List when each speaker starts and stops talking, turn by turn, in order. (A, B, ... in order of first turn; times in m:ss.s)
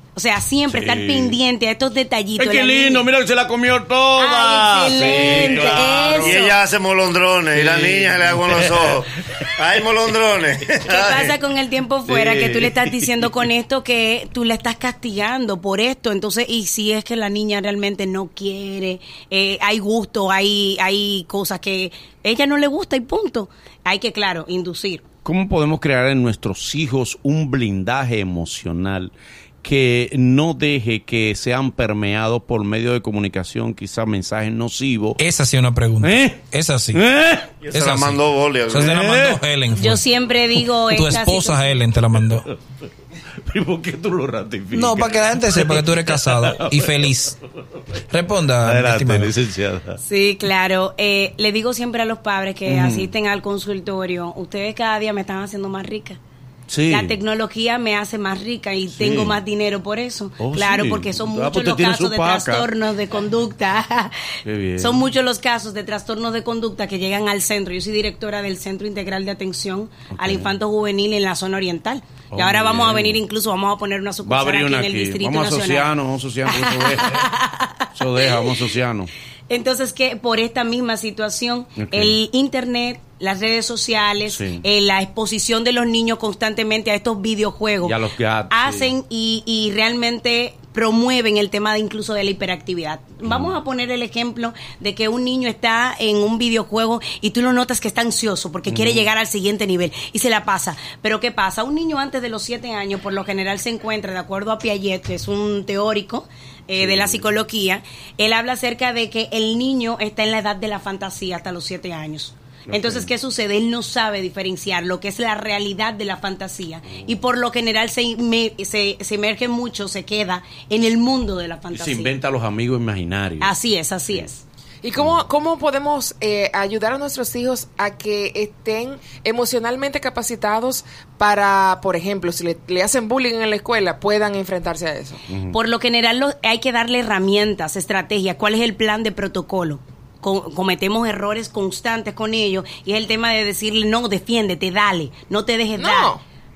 0:00.2-0:03.1 A
0:00.7-0:01.4 B
0:02.4-0:06.4 B
0:04.2-0:06.6 A
0:06.2-0:11.4 C
0:07.5-0:09.5 B
0:10.9-0:25.0 A
0:12.1-0:13.4 B
0:25.2-0:35.2 B
0:35.2-0:37.0 D
0:36.0-0:37.6 B
0:37.6-0:38.9 C
0:37.7-0:40.0 D
0:38.8-0:39.5 B
0:39.7-0:41.8 A
0:40.9-0:42.5 D
0:42.1-0:42.4 B
0:43.5-0:47.1 B
0:44.7-0:47.3 D
0:48.1-0:49.3 D
0:48.6-0:50.0 B
0:50.0-0:56.2 A
0:52.7-0:53.1 B
0:56.7-0:57.2 B
0:56.9-1:04.3 A
0:58.9-0:59.4 B
1:00.4-1:02.7 B
1:04.4-1:05.0 B
1:04.8-1:15.9 A
1:10.1-1:10.5 B
1:12.3-1:13.2 B
1:14.2-1:19.1 B
1:16.5-1:18.4 A
1:19.5-1:28.0 A
1:21.8-1:22.2 B
1:24.3-1:24.6 B
1:27.8-1:28.9 B
1:28.5-2:02.2 A
1:33.2-1:33.6 B
1:38.7-1:39.1 B
1:46.8-1:47.2 B
1:52.7-1:53.1 B
1:56.9-1:57.2 B
2:01.7-2:03.6 B
2:03.4-2:04.4 A
2:04.8-2:15.2 E
2:15.3-2:15.6 B
2:15.5-2:26.2 A
2:25.8-2:26.2 E